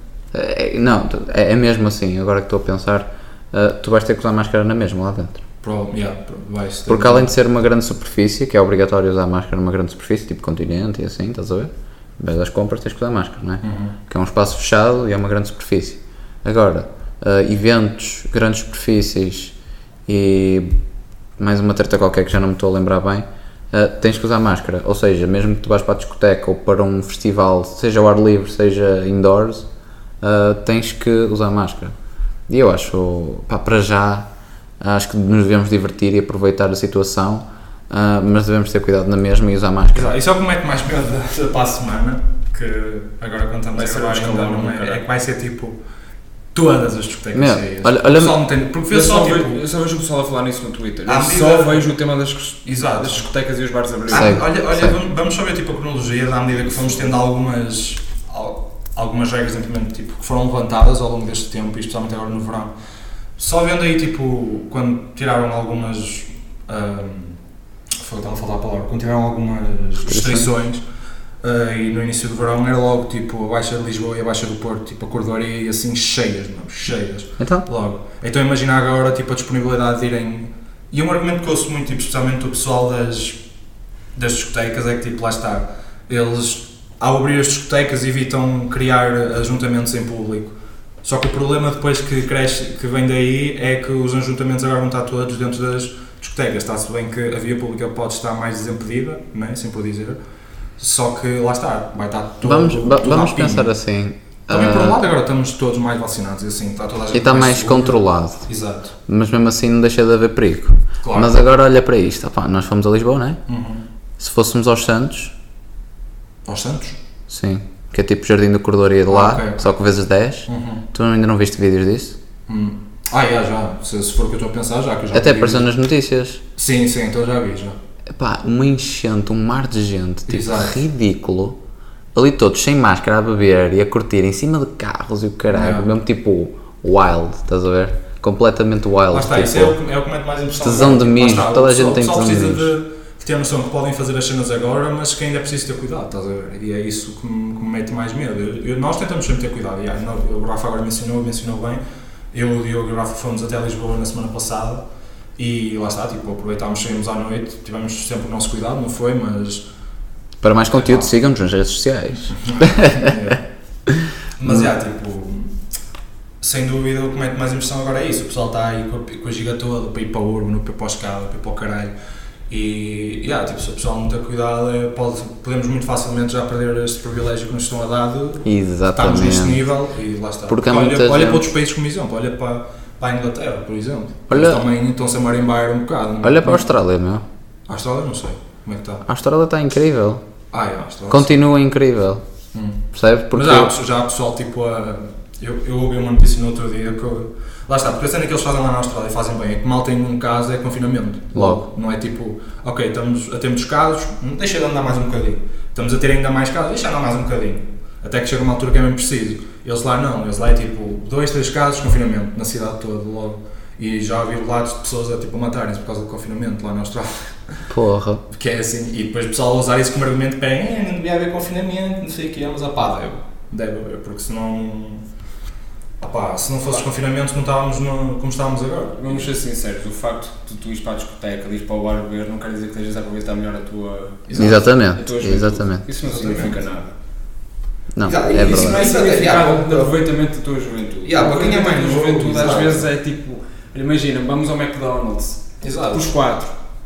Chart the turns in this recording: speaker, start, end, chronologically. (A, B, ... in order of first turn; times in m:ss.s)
0:00.3-0:05.4 A
0:05.6-0:07.3 B
0:06.9-0:19.5 A
0:13.6-0:13.9 B
0:20.1-0:20.7 A
0:21.4-0:29.7 A
0:30.2-0:31.9 A
0:32.5-0:40.1 A
0:39.9-0:45.8 B
0:43.7-0:45.0 C
0:46.5-0:49.6 B
0:47.3-0:48.4 A
0:48.9-0:54.3 C
0:51.0-0:51.9 B
0:52.6-0:53.3 B
0:54.1-1:02.7 B
0:54.1-0:54.9 A
1:03.4-1:07.4 B
1:08.0-1:10.8 B
1:10.1-1:10.5 A
1:11.4-1:23.4 B
1:17.4-1:17.6 A
1:24.1-1:40.2 B
1:40.8-1:43.7 B
1:42.4-1:45.0 A
1:44.5-1:48.9 B
1:47.1-1:48.4 A
1:49.1-1:53.4 A
1:51.0-1:51.3 B
1:53.5-1:53.8 B
1:54.2-1:55.3 A
1:56.4-1:57.0 B
1:57.3-2:02.2 A
1:59.1-1:59.7 B
2:00.5-2:00.8 B
2:02.5-2:05.7 B
2:05.1-2:06.4 A
2:06.6-2:07.8 B
2:08.1-2:11.6 A
2:10.3-2:10.8 B
2:12.1-2:19.8 A
2:15.5-2:15.9 B
2:19.1-2:31.8 B
2:20.6-2:22.7 A
2:32.3-2:34.8 B
2:35.4-2:39.6 B
2:40.4-2:43.3 A
2:40.7-2:41.1 B
2:42.3-2:43.4 B
2:43.9-2:44.6 A
2:44.4-2:45.6 B
2:46.4-2:51.9 B
2:52.5-3:06.7 B
2:58.4-2:59.6 A
3:00.5-3:01.5 A
3:04.3-3:04.6 A
3:06.2-3:07.2 A
3:07.7-3:09.0 B
3:09.0-3:10.2 A
3:10.5-3:11.3 B
3:11.1-3:12.2 A
3:12.5-3:37.6 B
3:12.9-3:13.7 A
3:21.3-3:21.7 A
3:37.7-3:38.2 A
3:38.3-3:45.0 B
3:46.0-3:49.3 B
3:48.9-3:56.9 C
3:54.3-3:54.7 B
3:54.4-3:55.8 A
3:56.0-3:56.6 B
3:57.9-3:58.8 A
3:58.0-4:00.0 B
3:58.4-4:06.5 C
4:01.0-4:02.9 B
4:05.6-4:06.1 B